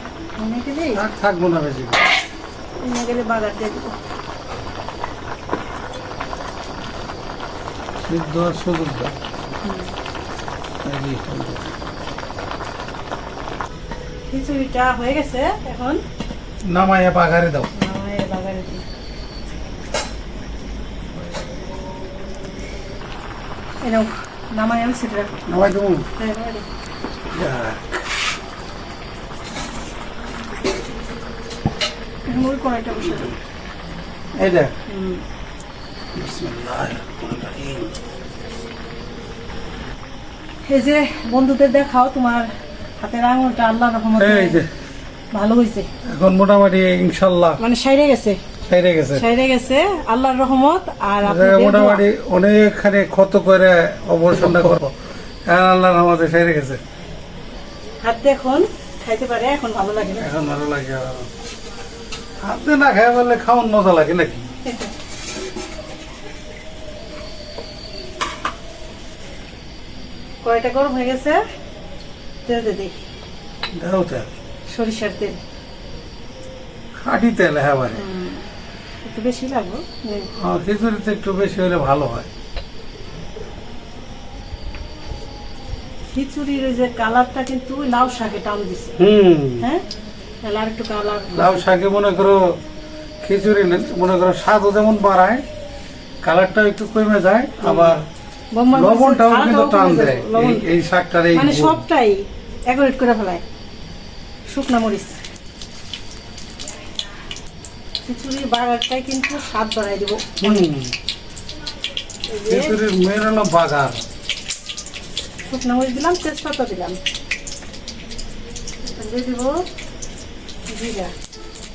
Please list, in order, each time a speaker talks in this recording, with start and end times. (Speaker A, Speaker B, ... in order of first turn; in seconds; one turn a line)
Speaker A: 0.4-1.0
Speaker B: 0.9-2.0
Speaker A: 2.8-3.9
Speaker B: 8.0-9.2
Speaker A: 9.6-9.9
Speaker B: 10.8-11.7
Speaker A: 14.3-16.0
Speaker B: 16.6-17.7
Speaker A: 17.7-18.8
Speaker A: 23.8-25.4
Speaker B: 25.5-26.1
Speaker A: 26.2-26.6
Speaker B: 27.3-28.1
Speaker A: 32.3-33.3
Speaker B: 34.3-34.7
Speaker A: 34.9-35.2
Speaker B: 36.1-38.0
Speaker A: 40.7-42.5
Speaker A: 43.0-44.6
Speaker B: 44.2-44.7
Speaker A: 45.3-45.9
Speaker B: 46.0-47.6
Speaker A: 47.6-48.4
Speaker B: 48.6-49.2
Speaker A: 49.1-52.0
Speaker B: 51.2-54.9
Speaker B: 55.5-56.8
Speaker A: 58.0-60.2
Speaker B: 60.2-61.3
Speaker B: 62.4-64.5
Speaker A: 64.6-64.9
Speaker A: 70.4-71.4
Speaker A: 72.5-73.0
Speaker B: 73.7-74.3
Speaker A: 74.7-75.4
Speaker B: 77.0-78.0
Speaker A: 77.9-78.5
Speaker A: 79.0-80.3
Speaker B: 80.3-82.3
Speaker A: 86.1-89.0
Speaker B: 89.0-89.7
Speaker A: 90.4-91.7
Speaker B: 91.3-92.6
Speaker B: 93.2-95.4
Speaker B: 96.2-98.0
Speaker A: 97.6-97.9
Speaker A: 98.5-100.6
Speaker B: 98.7-101.8
Speaker A: 101.3-103.4
Speaker A: 104.5-105.2
Speaker A: 108.0-110.7
Speaker B: 110.4-110.9
Speaker A: 112.3-112.8
Speaker B: 112.5-114.0
Speaker A: 115.5-117.0
Speaker A: 118.8-119.6
Speaker A: 120.7-121.1